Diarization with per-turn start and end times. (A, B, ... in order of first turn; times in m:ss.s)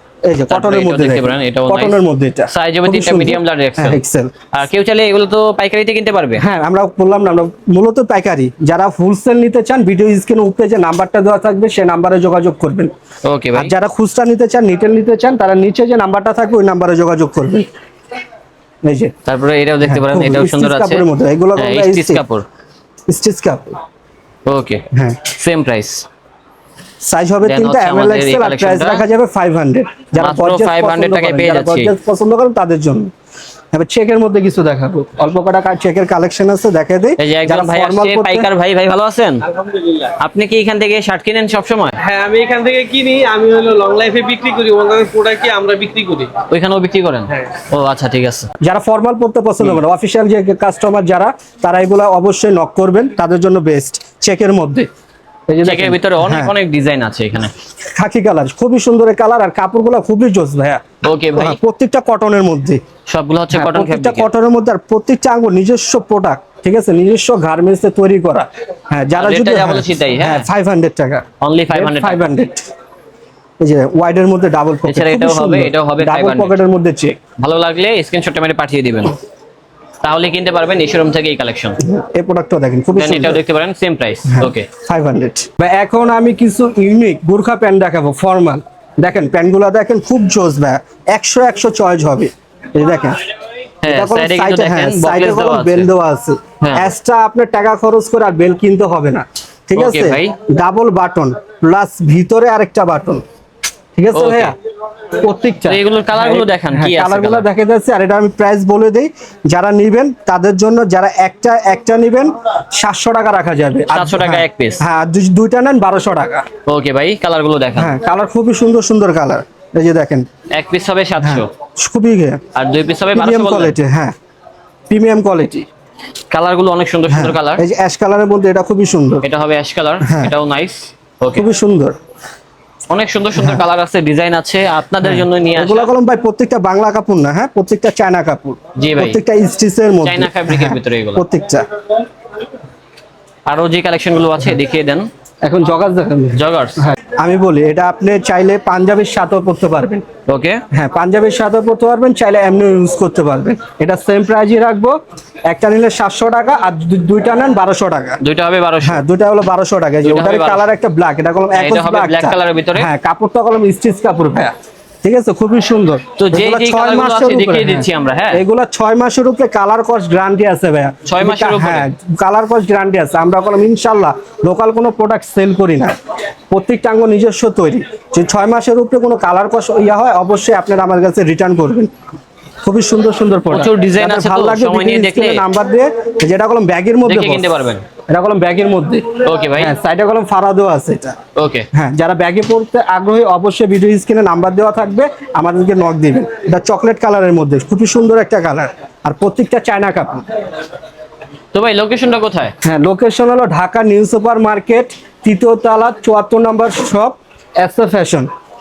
0:00.2-0:04.3 A
0:00.5-0:02.0 B
0:02.5-0:04.0 B
0:04.5-0:06.4 B
0:06.4-0:12.9 A
0:13.2-0:13.7 B
0:13.6-0:17.7 A
0:18.8-0:19.1 A
0:19.3-0:21.0 B
0:19.8-0:22.2 A
0:21.6-0:22.4 B
0:23.1-0:23.8 A
0:24.5-0:26.1 B
0:24.9-0:25.2 A
0:27.0-0:33.1 A
0:27.4-0:29.1 B
0:30.2-0:31.9 B
0:33.7-0:38.5 A
0:37.2-0:39.4 B
0:39.5-0:40.0 C
0:40.2-0:42.0 B
0:42.0-0:46.3 C
0:46.5-0:48.5 B
0:48.6-0:54.9 A
0:55.5-0:56.5 A
0:55.6-0:57.5 B
0:58.0-1:00.8 A
1:01.0-1:01.6 B
1:01.4-1:02.8 A
1:03.1-1:04.3 B
1:03.5-1:12.6 A
1:09.2-1:10.5 B
1:11.4-1:12.3 B
1:13.6-1:17.2 A
1:14.8-1:16.6 B
1:17.4-1:19.2 B
1:20.0-1:21.8 B
1:21.8-1:23.4 A
1:22.9-1:24.7 B
1:24.3-1:33.2 A
1:33.8-1:35.9 B
1:33.8-1:43.2 A
1:36.6-1:36.9 B
1:39.8-1:40.4 B
1:44.0-1:44.5 A
1:44.1-1:44.5 B
1:45.2-1:56.5 A
1:45.7-1:47.5 B
1:53.9-1:54.8 B
1:56.7-1:57.9 B
1:57.8-2:00.3 A
2:00.5-2:01.5 B
2:01.2-2:02.4 A
2:02.6-2:03.8 B
2:03.1-2:04.2 A
2:04.9-2:05.7 A
2:06.3-2:07.6 B
2:07.1-2:09.3 A
2:09.2-2:11.5 B
2:10.0-2:10.3 A
2:11.4-2:12.0 A
2:12.9-2:15.9 B
2:13.4-2:13.6 A
2:15.0-2:21.6 A
2:18.8-2:19.2 B
2:20.0-2:21.2 B
2:23.5-2:25.1 B
2:25.4-2:30.0 A
2:26.4-2:26.8 B
2:30.3-2:30.6 B
2:30.7-2:35.0 A
2:35.5-2:38.2 A
2:38.2-2:39.0 B
2:38.8-2:44.5 A
2:40.0-2:40.7 B
2:41.6-2:42.9 B
2:45.0-2:56.0 A
2:46.2-2:48.4 B
2:51.1-2:51.9 B
2:56.5-3:01.9 A
3:02.6-3:07.5 A
3:03.5-3:05.4 B
3:07.0-3:07.8 B
3:08.1-3:09.0 A
3:09.2-3:09.7 B
3:09.6-3:11.2 A
3:11.4-3:11.7 B
3:11.7-3:20.2 A
3:21.5-3:22.5 B
3:22.6-3:28.3 A